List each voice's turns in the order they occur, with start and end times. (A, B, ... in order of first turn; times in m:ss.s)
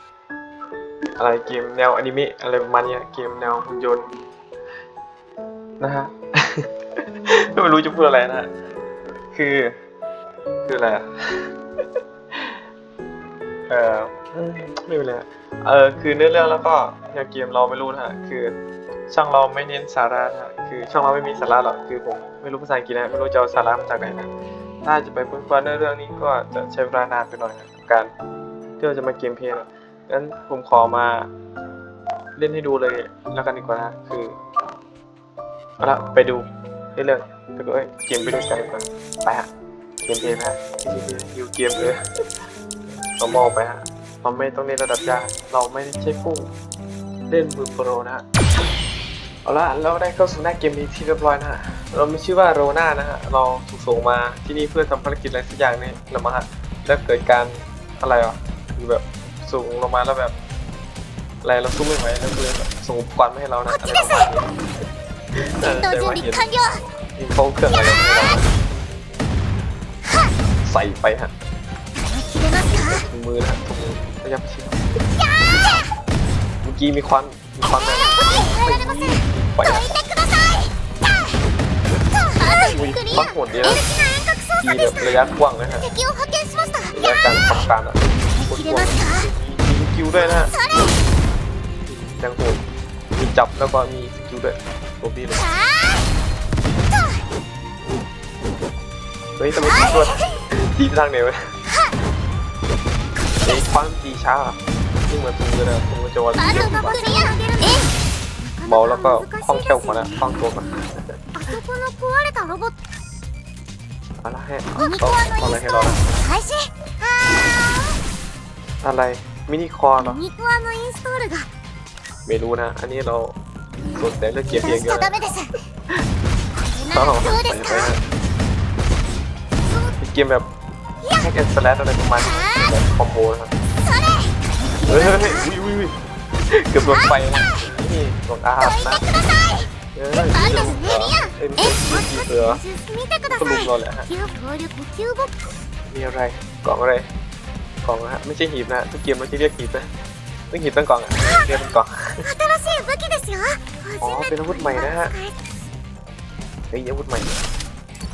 0:01.2-0:04.1 A
0:05.8-0:06.7 A
0:07.2-0:08.5 A
0:09.3-0:09.8 A
0:10.6-0:11.5 A
0:13.7-0:18.6 A
0:19.1-0:24.3 A
0:24.8-0:28.1 A
0:28.8-0:31.3 A
0:32.4-0:34.4 A
0:35.8-0:39.5 A
0:40.0-0:42.0 A
0:43.0-0:46.5 A
0:47.3-0:48.2 A
0:49.4-1:00.4 A
1:01.4-1:04.6 A
1:03.7-1:04.5 B
1:05.6-1:06.5 A
1:05.6-1:06.8 B
1:07.2-1:08.5 A
1:07.8-1:08.4 B
1:10.1-1:10.3 B
1:10.6-1:11.3 A
1:12.0-1:13.0 B
1:12.8-1:15.0 A
1:15.2-1:15.9 B
1:16.6-1:19.9 A
1:17.7-1:21.4 B
1:22.1-1:27.1 B
1:22.7-1:23.9 A
1:24.6-1:25.9 A
1:26.9-1:30.5 A
1:28.4-1:29.3 B
1:30.1-1:31.0 B
1:31.9-1:32.6 A
1:33.2-1:35.4 A
1:35.3-1:36.2 B
1:36.9-1:37.3 B
1:39.4-1:41.6 A
1:39.6-1:40.3 B
1:41.7-1:41.9 B
1:43.4-1:47.2 A
1:46.3-1:50.2 B
1:48.7-1:51.2 A
1:51.3-1:52.8 B
1:54.2-1:56.0 A
1:54.8-1:58.0 B
1:58.8-2:00.2 A
2:00.0-2:01.5 B
2:02.3-2:03.4 A
2:04.0-2:05.2 A
2:04.5-2:05.5 B
2:06.5-2:07.9 B
2:06.9-2:08.0 A
2:09.6-2:10.0 B
2:10.0-2:10.5 A
2:11.0-2:11.4 B
2:11.2-2:13.5 A
2:12.2-2:12.7 B
2:13.8-2:15.5 B
2:14.9-2:19.0 A
2:16.8-2:17.7 B
2:18.6-2:25.4 B
2:20.0-2:22.6 A
2:23.3-2:24.1 A
2:25.9-2:27.1 A
2:27.8-2:29.9 A
2:30.5-2:32.3 A
2:31.2-2:31.5 B
2:32.2-2:35.4 B
2:34.0-2:35.1 A
2:36.7-2:37.4 A